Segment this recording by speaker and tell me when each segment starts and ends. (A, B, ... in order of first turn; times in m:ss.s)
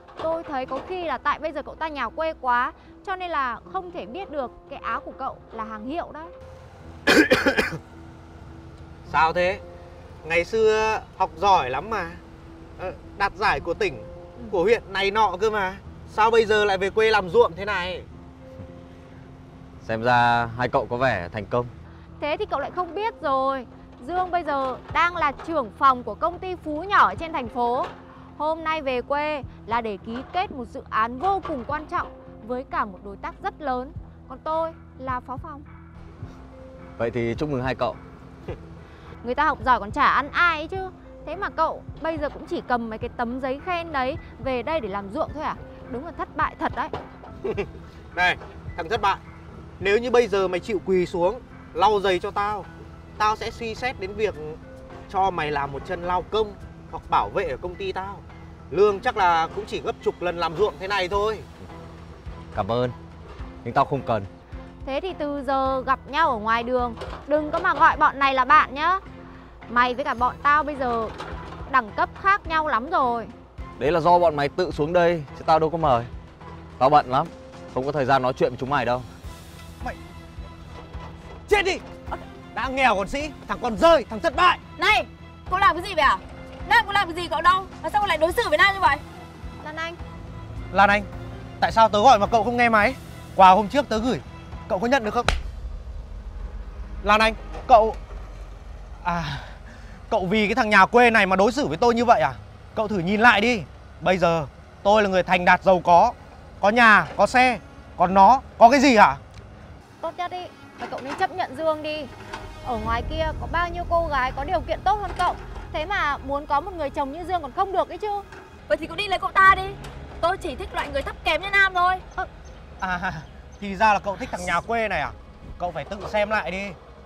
0:00.2-0:06.3 A
0:07.1-0:07.8 B
0:09.1-0:09.6 B
0:10.2-0:12.2 B
0:12.8-0:18.1 B
0:19.8-0:21.7 C
0:22.2-0:35.6 A
0:37.0-0:38.0 C
0:39.2-0:46.9 A
0:47.4-0:49.2 B
0:49.8-1:01.5 B
1:02.5-1:02.9 C
1:03.6-1:04.3 C
1:04.8-1:09.0 A
1:09.7-1:11.1 A
1:11.7-1:13.3 A
1:13.8-1:16.1 C
1:16.8-1:19.0 C
1:21.5-1:21.8 B
1:22.5-1:24.6 B
1:24.8-1:29.0 D
1:29.6-1:30.0 A
1:30.7-1:31.1 B
1:31.6-1:35.3 B
1:37.0-1:38.0 B
1:39.0-1:49.2 B
1:50.0-1:52.1 A
1:52.6-1:58.2 A
1:58.7-2:02.0 D
2:02.8-2:06.8 B